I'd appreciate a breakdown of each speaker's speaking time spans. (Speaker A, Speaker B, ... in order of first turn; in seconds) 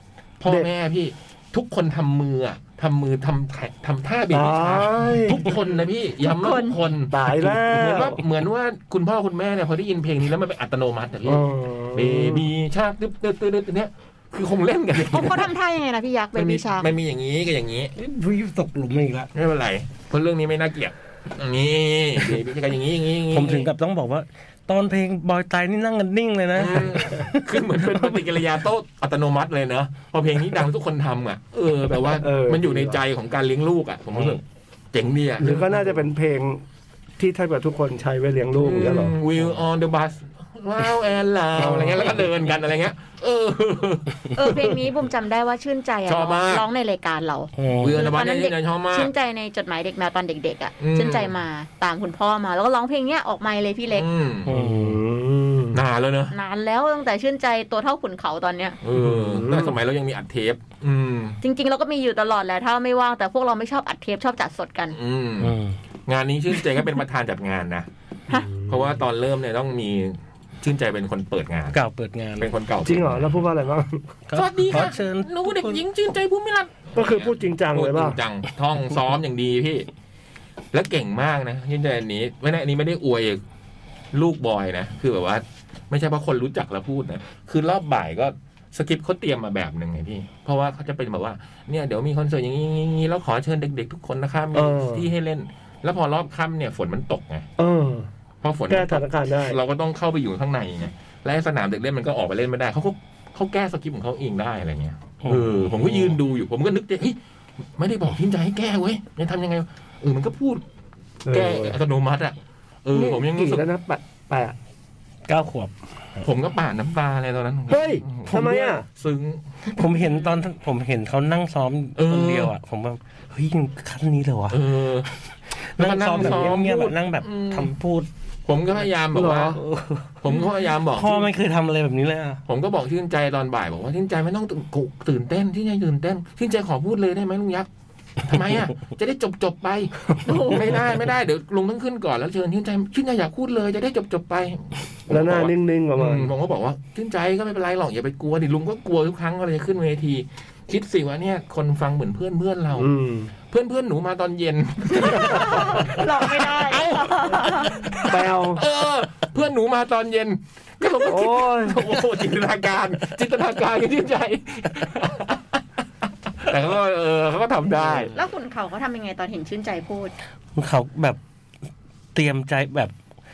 Speaker A: 0.4-15.5, 16.4-17.9, 19.3-23.7, 26.6-36.0, 38.6-44.8, 46.1-46.6, 47.8-49.1, 50.8-51.3, 53.9-54.5, 55.7-56.4, 58.8-61.4, 64.9-65.5, 66.1-67.9, 68.7-71.8, 72.4-73.4, 74.3-79.9, 80.7-83.4, 84.1-97.5, 98.4-107.2, 107.8-110.6, 111.3-113.6, 116.2-120.4, 122.0-122.5, 124.5-125.1, 125.8-127.7, 128.5-129.6, 130.2-131.3, 132.5-137.7, 138.2-152.9, 153.5-165.4, 166.4-168.1
Speaker B: 4.3-5.5, 7.1-8.2, 11.2-12.5, 32.2-33.0, 35.4-36.6, 37.2-39.2, 41.6-42.2, 54.5-55.8, 59.0-59.8, 68.3-69.0, 72.8-74.1, 77.0-78.2, 94.5-95.1, 97.6-98.1, 98.7-99.6, 111.3-111.8, 112.9-114.6, 117.7-118.8, 126.2-126.5, 129.1-129.6, 145.1-146.3, 152.8-153.3, 155.2-155.6, 158.0-158.6, 161.1-161.8
Speaker C: 6.2-6.8, 15.1-16.9, 44.3-54.1, 56.3-58.8, 61.4-65.0, 140.2-140.7, 155.0-157.9, 168.1-170.1
Speaker D: 17.9-19.3, 23.3-28.2, 47.6-48.0, 54.5-55.0, 65.4-65.8, 71.7-72.5, 74.3-75.8, 105.2-106.2, 115.3-115.7, 119.8-124.6, 125.8-128.1, 129.6-130.1, 130.9-132.4, 170.6-171.2, 172.2-172.9